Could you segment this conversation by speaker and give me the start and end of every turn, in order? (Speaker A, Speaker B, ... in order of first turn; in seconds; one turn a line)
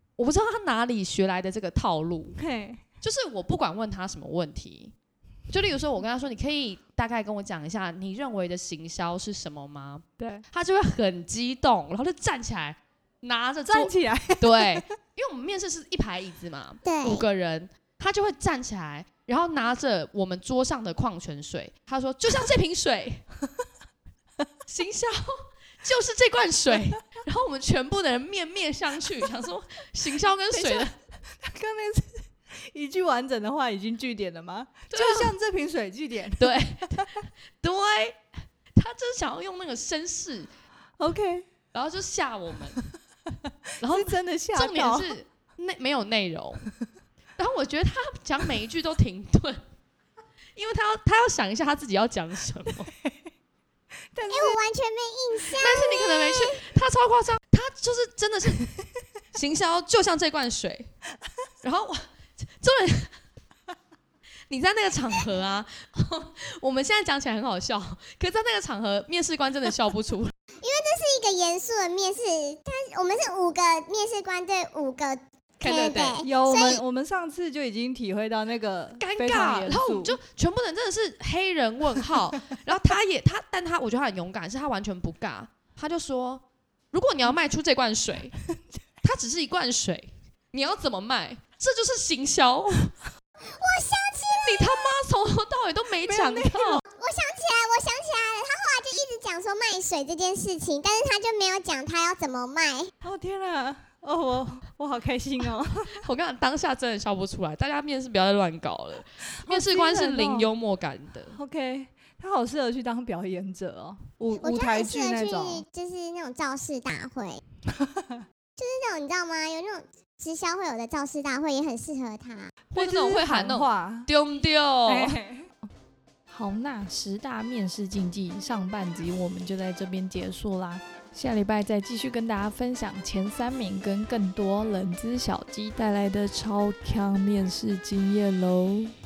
Speaker A: 0.2-2.4
Speaker B: 2.4-2.8
Speaker A: 3.0-4.9
Speaker A: 5.5-23.2
Speaker B: 10.2-10.5
Speaker B: 13.7-14.8
Speaker C: 16.8-17.2
Speaker A: 24.6-30.9
Speaker B: 30.5-37.1
Speaker A: 34.9-35.3
Speaker A: 36.4-38.2
Speaker A: 38.8-40.5
Speaker B: 41.0-41.5
Speaker A: 41.7-42.8
Speaker A: 43.8-46.7
Speaker B: 43.8-45.1
Speaker A: 47.4-49.6
Speaker A: 50.6-52.9
Speaker B: 54.1-54.6
Speaker C: 54.3-56.6
Speaker A: 55.6-58.7
Speaker A: 59.3-60.9
Speaker A: 61.6-63.2
Speaker A: 64.5-70.3
Speaker C: 70.6-76.8
Speaker A: 75.6-76.2
Speaker B: 75.6-80.2
Speaker A: 79.0-88.3
Speaker A: 89.0-92.9
Speaker C: 93.4-94.9
Speaker A: 94.3-96.8
Speaker B: 96.1-96.8
Speaker C: 96.9-102.9
Speaker B: 103.0-106.0
Speaker A: 106.0-111.4
Speaker B: 109.4-110.5
Speaker B: 111.3-115.6
Speaker C: 114.4-117.4
Speaker B: 117.8-118.2
Speaker C: 118.6-122.5
Speaker B: 122.7-124.1
Speaker A: 122.8-125.2
Speaker B: 124.9-125.7
Speaker B: 126.3-138.9